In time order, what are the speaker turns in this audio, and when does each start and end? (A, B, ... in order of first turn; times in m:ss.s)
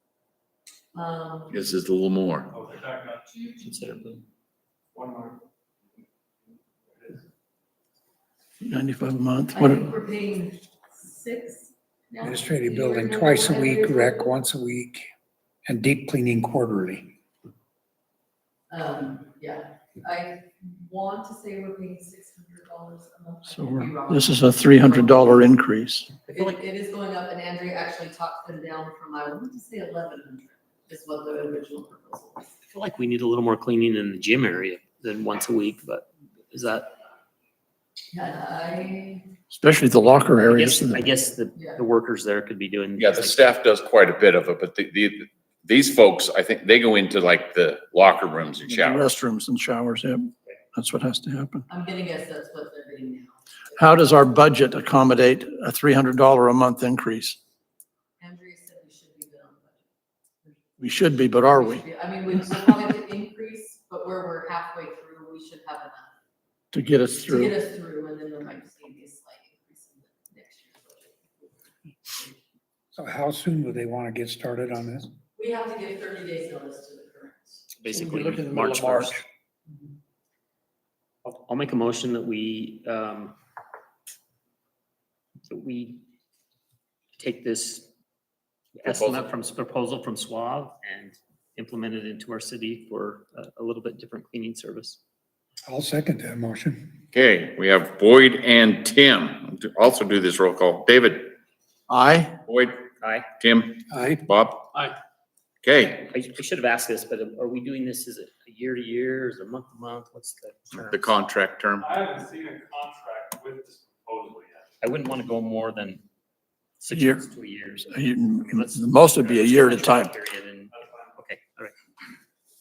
0:00.9-0:01.6 A
0:01.5-0:02.5 B
0:02.5-0:03.4 C
0:03.3-0:03.7 A
0:03.6-0:04.2 D
0:04.9-0:05.4 C
0:08.6-0:09.9 E
0:09.5-0:14.3 A
0:12.2-0:15.0 F
0:15.6-0:17.1 F
0:18.7-0:25.6 A
0:23.5-0:26.1 E
0:26.3-0:32.5 A
0:26.3-0:26.5 D
0:32.7-0:36.9 D
0:38.1-0:39.3 A
0:39.5-0:41.0 E
0:40.4-0:43.5 D
0:43.0-0:49.1 B
0:48.7-0:51.6 E
0:51.7-0:53.8 A
0:53.8-0:57.4 E
0:58.2-0:59.8 A
1:00.4-1:06.1 A
1:00.8-1:01.8 E
1:06.7-1:07.6 E
1:07.2-1:12.3 A
1:12.9-1:15.1 F
1:15.3-1:17.6 A
1:17.7-1:19.2 D
1:17.9-1:19.2 E
1:21.2-1:23.3 D
1:25.5-1:26.0 D
1:27.2-1:27.9 D
1:28.7-1:35.0 D
1:28.8-1:29.3 B
1:35.6-1:36.9 F
1:37.1-1:41.3 B
1:41.9-1:42.3 E
1:42.5-1:42.9 B
1:43.0-1:43.3 D
1:43.4-1:44.8 B
1:43.9-1:44.2 F
1:45.6-1:46.1 B
1:46.1-1:51.1 D
1:50.8-1:51.9 B
1:51.8-1:54.7 C
1:54.8-1:56.0 D
1:56.8-2:01.7 D
1:56.9-1:57.2 E
1:57.9-2:00.1 E
2:00.7-2:01.0 C